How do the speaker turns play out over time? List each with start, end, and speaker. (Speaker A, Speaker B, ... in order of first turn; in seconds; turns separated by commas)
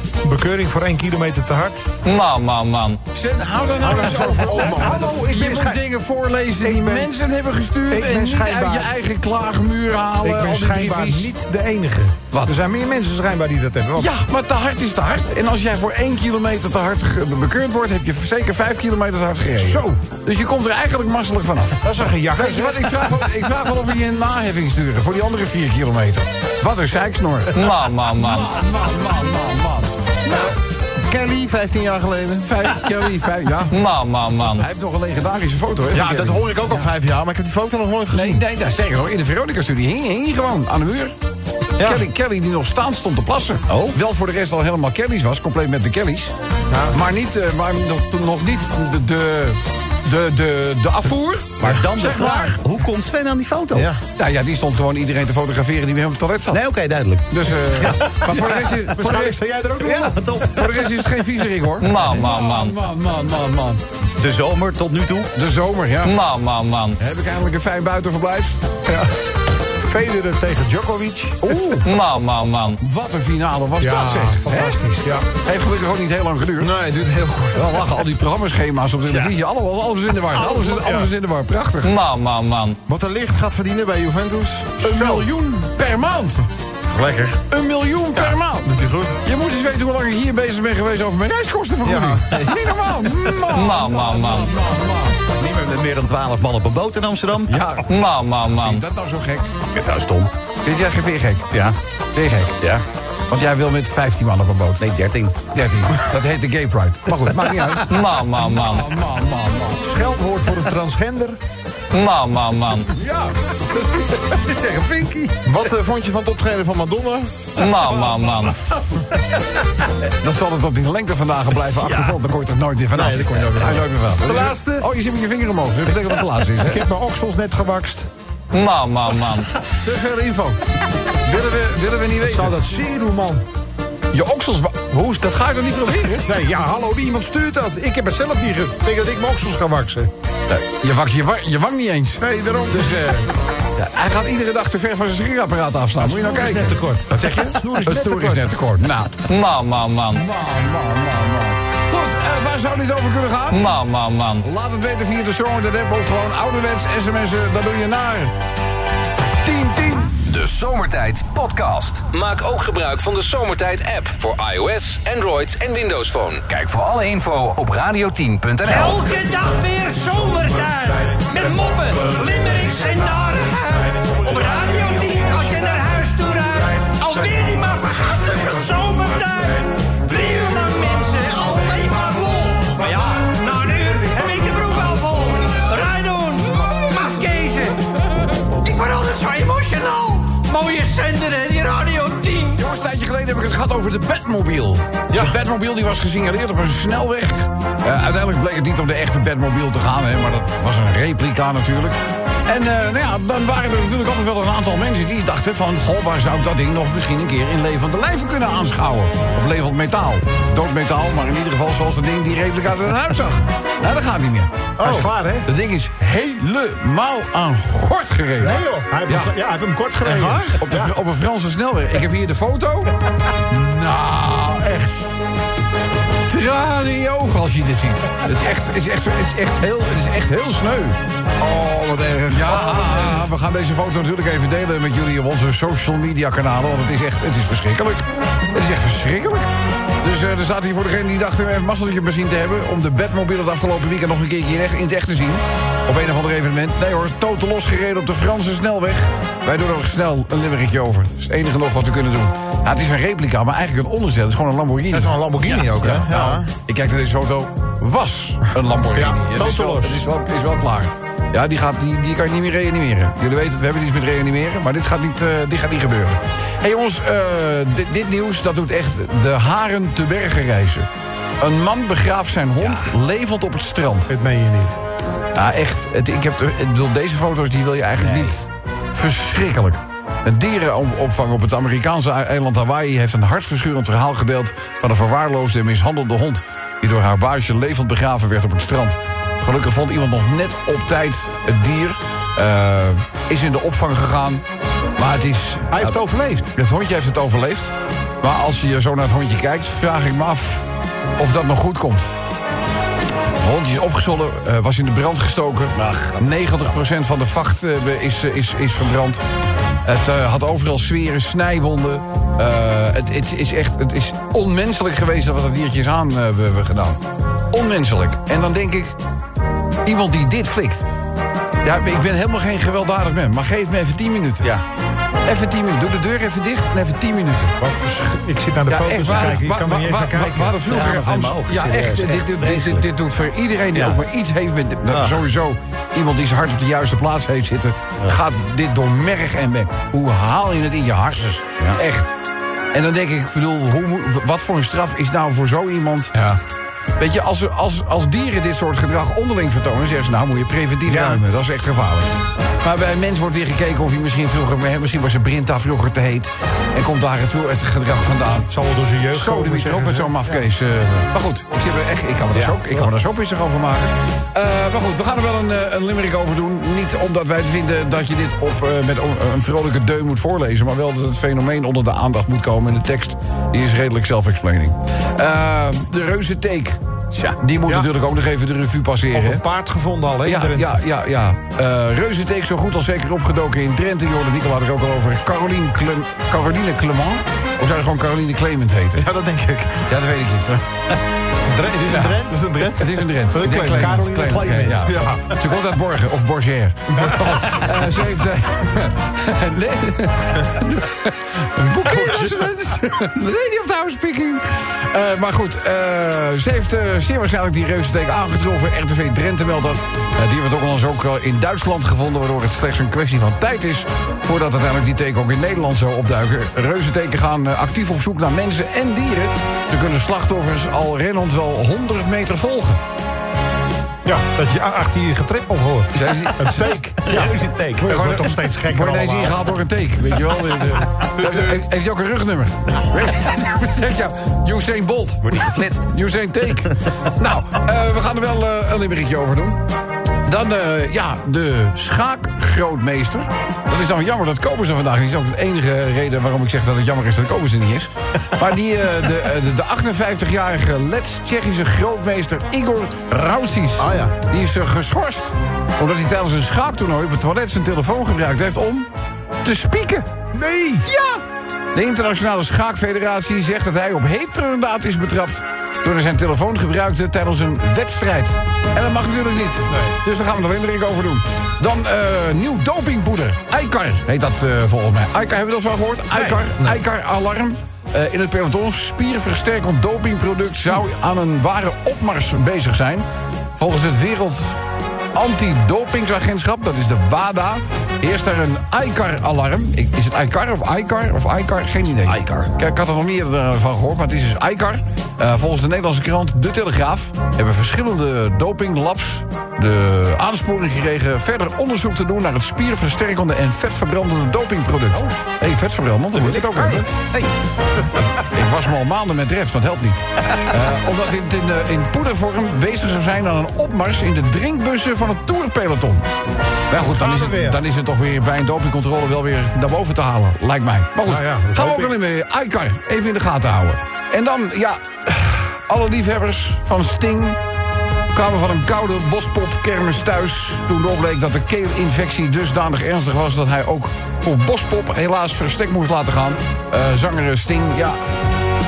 Speaker A: 0.2-1.9, Speaker B: 2.1-3.0, Speaker C: 3.1-11.3, Speaker A: 3.8-5.8, Speaker D: 3.8-5.1, Speaker A: 6.6-7.1, Speaker A: 7.9-8.9, Speaker A: 10.2-14.1, Speaker C: 12.3-12.6, Speaker C: 13.9-21.8, Speaker A: 19.6-19.8, Speaker A: 21.8-23.1, Speaker C: 22.3-30.5, Speaker D: 31.0-32.5, Speaker C: 32.5-36.9, Speaker D: 35.9-38.4, Speaker C: 38.1-41.1, Speaker C: 41.8-46.3, Speaker E: 43.7-44.0, Speaker C: 46.9-52.6, Speaker E: 51.6-53.9, Speaker D: 53.7-54.0, Speaker C: 54.1-56.6, Speaker E: 56.5-58.9, Speaker C: 57.3-59.4, Speaker A: 58.9-60.2, Speaker E: 59.8-61.0, Speaker C: 60.4-63.8, Speaker E: 64.2-65.3, Speaker C: 65.3-66.4, Speaker B: 66.4-66.9, Speaker C: 67.0-68.6, Speaker A: 68.9-69.2, Speaker A: 69.8-71.8, Speaker C: 71.5-71.9, Speaker B: 72.1-72.7, Speaker C: 72.7-74.8, Speaker A: 73.8-75.3, Speaker C: 75.4-76.7, Speaker D: 76.6-77.8, Speaker C: 77.5-82.1, Speaker A: 79.1-79.3, Speaker A: 80.3-81.1, Speaker B: 82.1-82.7, Speaker D: 82.9-85.2, Speaker C: 84.8-86.5, Speaker D: 87.0-87.3, Speaker C: 87.3-95.2, Speaker D: 88.7-89.2, Speaker D: 91.8-92.4, Speaker E: 95.3-97.6, Speaker C: 97.5-99.5, Speaker E: 99.7-100.3, Speaker C: 100.6-101.5, Speaker E: 101.5-101.8, Speaker C: 102.1-102.5, Speaker C: 103.3-104.8, Speaker E: 104.8-105.3, Speaker C: 105.5-109.8, Speaker A: 109.8-111.4, Speaker B: 111.9-112.6, Speaker C: 112.7-113.3, Speaker A: 114.5-115.4, Speaker D: 115.3-117.7, Speaker C: 120.2-126.8, Speaker D: 122.9-123.8, Speaker A: 122.9-124.9, Speaker A: 126.6-128.1, Speaker B: 128.5-129.4, Speaker C: 129.8-130.6, Speaker C: 131.2-132.6, Speaker A: 132.2-133.4, Speaker C: 134.1-136.3, Speaker A: 136.2-140.1, Speaker C: 140.5-149.3, Speaker A: 142.2-143.1, Speaker A: 146.0-148.6, Speaker B: 149.4-150.0, Speaker C: 150.0-158.3, Speaker C: 159.4-160.1, Speaker F: 160.2-169.0, Speaker G: 168.7-187.8, Speaker G: 188.6-192.6, Speaker C: 192.6-214.5, Speaker A: 214.8-215.5, Speaker D: 214.8-215.1, Speaker C: 215.4-219.3, Speaker A: 218.4-220.9, Speaker C: 220.0-222.9, Speaker C: 223.5-225.1, Speaker C: 226.3-239.5, Speaker C: 240.0-270.9, Speaker D: 254.9-256.5, Speaker A: 258.9-260.0, Speaker C: 271.4-274.1, Speaker E: 272.6-272.9, Speaker A: 274.1-274.8, Speaker C: 275.3-294.4, Speaker E: 278.0-278.4, Speaker C: 295.0-296.0, Speaker A: 295.7-296.5, Speaker C: 296.5-300.6, Speaker C: 301.2-302.1, Speaker C: 303.4-309.2, Speaker C: 309.8-317.0, Speaker C: 317.5-318.9, Speaker C: 319.8-320.8, Speaker C: 321.6-324.5, Speaker C: 325.2-327.5, Speaker A: 327.6-330.6, Speaker C: 328.7-342.1, Speaker E: 330.6-332.9, Speaker E: 333.7-334.0, Speaker E: 334.9-335.2, Speaker C: 342.7-346.1, Speaker C: 347.0-358.5, Speaker A: 358.5-360.3, Speaker C: 359.1-379.4, Speaker A: 362.3-362.8, Speaker A: 377.6-377.9, Speaker A: 379.1-380.8, Speaker C: 380.2-389.1, Speaker D: 389.0-389.9, Speaker C: 389.9-390.6, Speaker A: 391.5-392.5, Speaker C: 391.9-422.8, Speaker D: 392.2-393.9, Speaker A: 393.3-395.2, Speaker D: 394.8-395.2, Speaker A: 397.0-397.4, Speaker A: 401.8-402.5, Speaker A: 424.0-429.5, Speaker C: 425.9-426.5, Speaker E: 427.0-428.0, Speaker C: 427.8-439.6, Speaker E: 435.2-435.9, Speaker C: 440.2-458.9, Speaker D: 453.8-454.1, Speaker C: 459.4-460.1, Speaker A: 460.3-460.9, Speaker C: 460.8-461.2, Speaker C: 461.7-483.1, Speaker A: 469.7-469.9, Speaker A: 476.1-476.5, Speaker C: 483.6-484.6, Speaker C: 485.1-506.9, Speaker E: 492.0-492.5, Speaker A: 506.2-506.8, Speaker E: 507.0-507.3, Speaker C: 508.3-516.1, Speaker C: 516.7-527.4, Speaker A: 516.8-517.6, Speaker A: 521.0-522.0, Speaker C: 528.1-538.0